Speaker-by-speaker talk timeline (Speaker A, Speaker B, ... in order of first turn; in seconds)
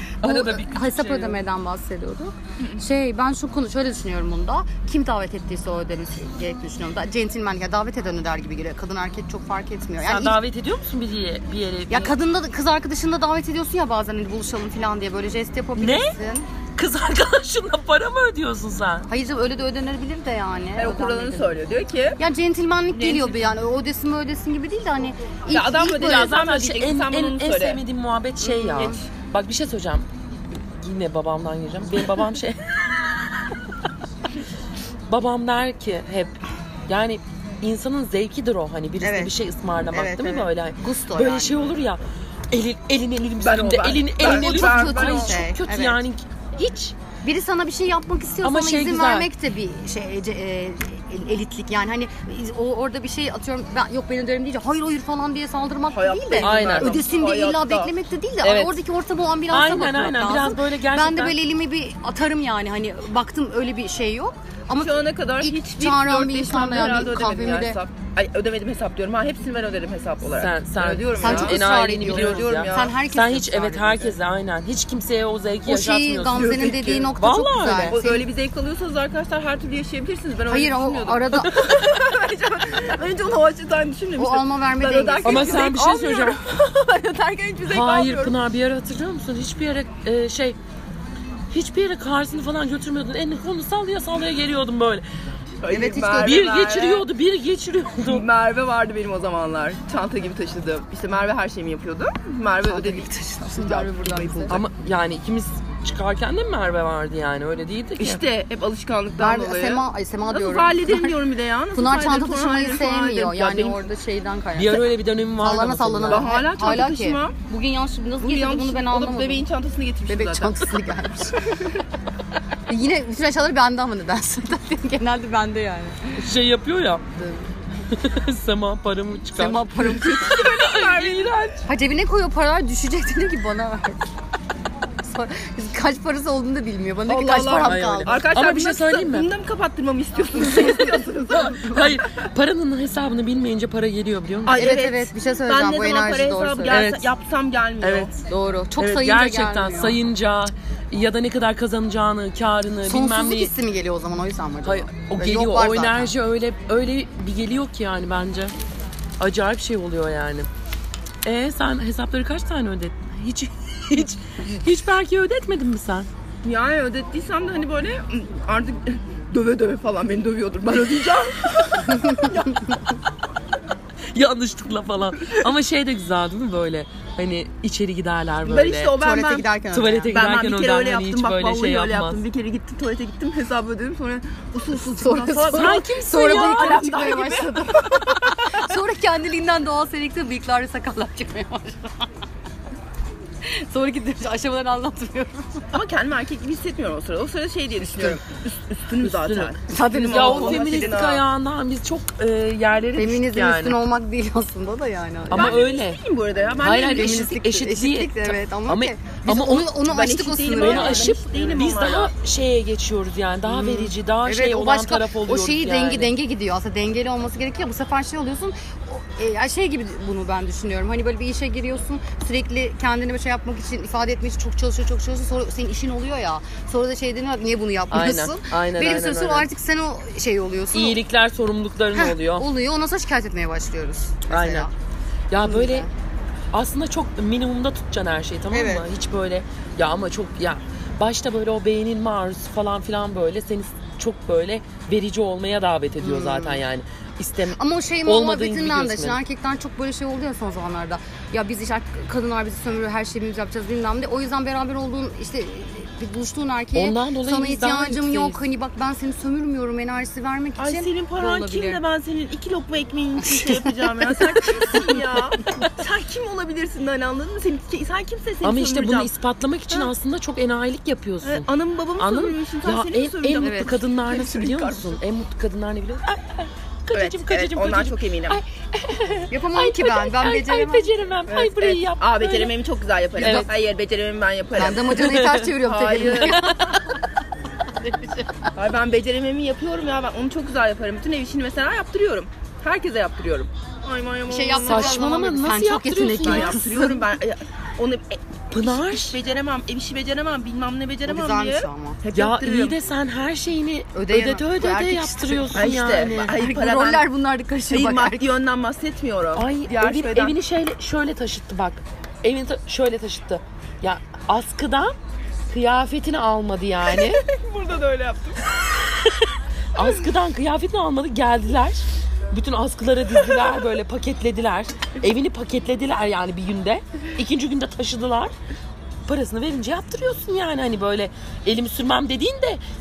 Speaker A: 0.2-10.4, 11.9-16.5, 19.1-21.6, 22.2-26.3, 28.4-29.0, 39.0-39.3, 39.9-41.6, 44.2-46.0, 47.2-67.8, 71.2-74.1, 75.7-78.2, 80.5-81.7, 84.2-85.7, 95.7-96.5, 102.6-104.6, 109.2-111.2, 111.7-119.5, 120.1-121.5, 122.7-126.1, 129.3-130.5, 131.7-134.0, 135.0-138.2, 144.5-146.9, 148.2-150.0, 152.8-156.1, 172.0-172.3, 178.9-180.1, 184.7-192.1, 193.4-195.5, 197.8-198.2, 199.7-201.0, 202.9-205.6, 206.8-211.2, 213.5-231.0, 231.9-234.7, 235.3-235.9, 238.5-238.8, 246.0-246.6, 247.5-261.8, 263.4-265.2, 273.4-273.7, 279.3-280.9, 283.2-283.5, 284.6-287.0, 287.7-288.5, 294.3-297.1, 301.1-302.0, 303.9-308.3
Speaker B: 0.2-1.4, 10.0-12.1, 15.8-16.1, 16.8-19.1, 25.9-33.2, 35.1-42.0, 42.5-47.0, 48.4-49.3, 56.4-57.0, 58.4-58.8, 59.5-61.4, 70.3-76.6, 77.2-78.0, 85.2-86.4, 87.7-90.6, 91.5-95.0, 96.2-98.3, 104.5-108.2, 114.6-116.3, 126.2-127.0, 127.9-129.7, 130.4-131.5, 137.6-139.3, 141.3-144.6, 146.7-147.1, 147.8-148.1, 148.8-153.5, 154.6-158.5, 159.2-160.5, 161.2-166.1, 174.1-179.0, 179.7-182.2, 185.5-186.9, 199.0-199.6, 200.1-203.8, 205.3-206.0, 206.6-209.8, 210.6-216.1, 227.9-229.5, 230.7-232.4, 234.3-234.7, 235.3-235.9, 236.5-249.2, 256.7-258.4, 268.4-271.5, 272.0-282.6, 283.2-283.5, 284.9-285.5, 286.1-286.8, 294.7-296.6, 298.5-299.2, 302.1-306.3, 309.3-314.9, 315.5-317.2, 318.5-328.3, 329.1-332.6
Speaker C: 20.8-22.2, 22.9-23.5, 25.5-27.8, 28.6-28.9, 43.4-45.4, 55.9-57.9, 64.8-72.9, 76.3-77.1, 77.9-88.4, 95.6-97.0, 98.0-104.6, 108.0-113.8, 116.1-117.4, 118.2-120.7, 121.4-121.8, 129.8-131.7, 137.1-142.3, 144.4-148.1, 166.4-172.8, 178.4-179.5, 180.1-188.6, 195.7-201.2, 205.3-207.2, 209.8-212.1, 260.6-269.1, 271.2-275.0, 276.9-278.4, 281.3-286.4, 288.6-295.1, 296.2-302.8, 305.5-307.1, 307.7-310.4, 316.9-318.4